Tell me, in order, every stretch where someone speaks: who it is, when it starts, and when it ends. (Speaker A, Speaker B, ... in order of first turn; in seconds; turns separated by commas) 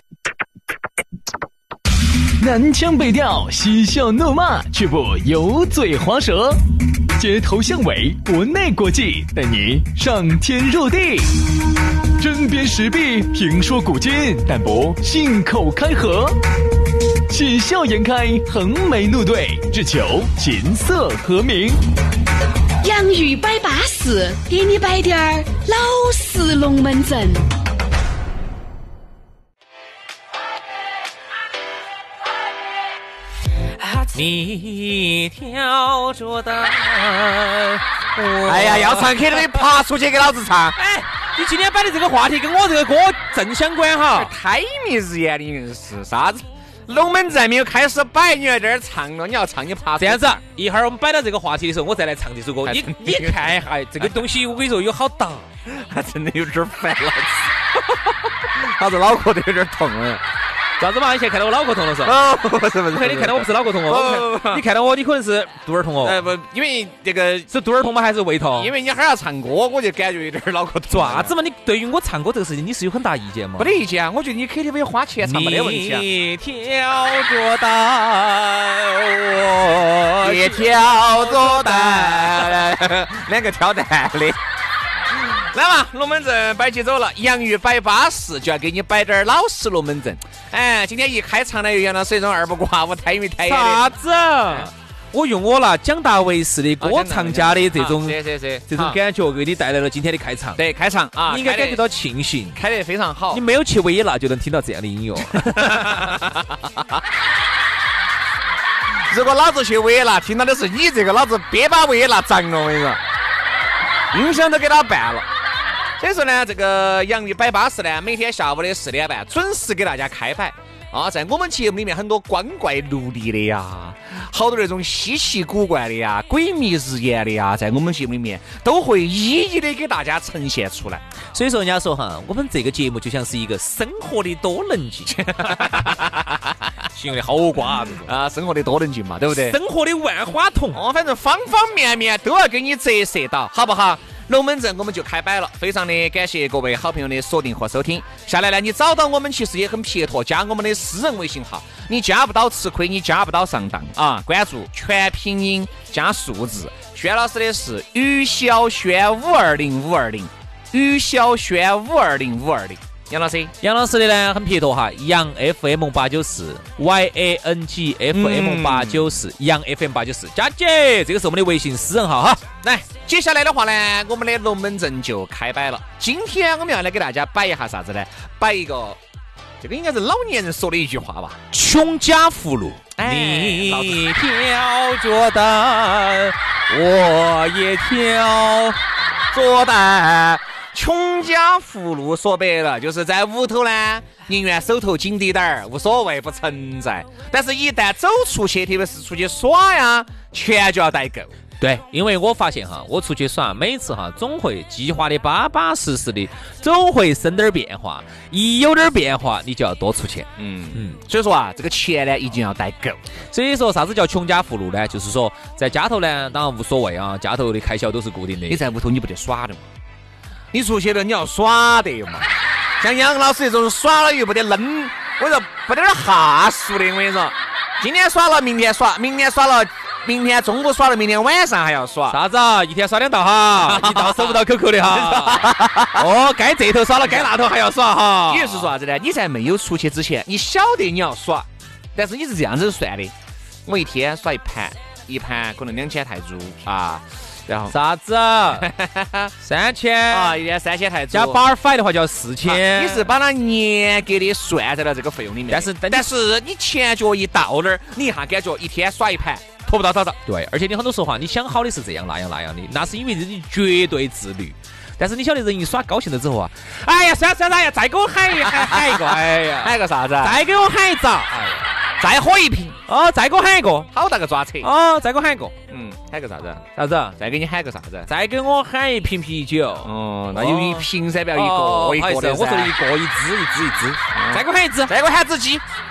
Speaker A: 2.4-16.4, Speaker A: 17.3-21.8, Speaker B: 22.8-27.4, Speaker C: 34.1-39.4, Speaker D: 38.4-40.8, Speaker C: 40.8-44.3, Speaker D: 44.1-50.4, Speaker C: 50.0-55.5, Speaker D: 52.6-54.2, Speaker D: 55.6-60.2, Speaker C: 60.8-62.2, Speaker D: 62.0-64.7, Speaker C: 62.9-66.2, Speaker D: 66.0-67.5, Speaker C: 67.5-68.7, Speaker D: 68.5-71.4, Speaker C: 70.9-73.7, Speaker D: 73.6-76.1, Speaker C: 75.2-82.7, Speaker D: 80.2-84.4, Speaker D: 85.3-93.9, Speaker C: 93.4-100.6, Speaker D: 96.8-99.0, Speaker D: 100.5-101.8, Speaker C: 101.3-102.6, Speaker D: 102.5-103.4, Speaker C: 103.3-106.1, Speaker D: 105.4-106.6, Speaker D: 109.1-113.0, Speaker D: 114.1-115.2, Speaker D: 116.0-131.0, Speaker C: 131.3-135.9, Speaker D: 135.1-139.6, Speaker C: 137.0-138.1, Speaker C: 139.3-140.8, Speaker D: 140.7-163.5, Speaker C: 163.6-172.4, Speaker D: 168.1-169.3, Speaker D: 172.6-179.0, Speaker D: 179.6-181.4, Speaker C: 181.5-188.8, Speaker D: 182.9-184.1, Speaker D: 189.3-201.3, Speaker C: 201.6-210.9, Speaker D: 210.4-213.0, Speaker C: 213.3-218.6, Speaker D: 218.5-219.6, Speaker D: 220.5-222.3, Speaker D: 222.8-232.2, Speaker C: 232.1-238.7, Speaker D: 233.6-236.1, Speaker D: 237.0-237.3, Speaker D: 238.3-243.1, Speaker D: 243.7-247.8, Speaker C: 247.7-248.7, Speaker D: 248.5-249.3, Speaker C: 249.4-250.4, Speaker D: 250.1-251.4, Speaker C: 251.1-253.1, Speaker D: 252.4-260.2, Speaker C: 255.5-256.0, Speaker C: 260.2-271.8, Speaker D: 268.4-270.4, Speaker D: 272.0-272.8, Speaker C: 272.9-273.9, Speaker D: 273.9-274.7, Speaker C: 274.6-275.5, Speaker D: 275.7-276.6, Speaker C: 276.8-277.2, Speaker D: 277.2-278.1, Speaker C: 278.1-284.9, Speaker D: 279.8-282.7, Speaker D: 284.1-285.6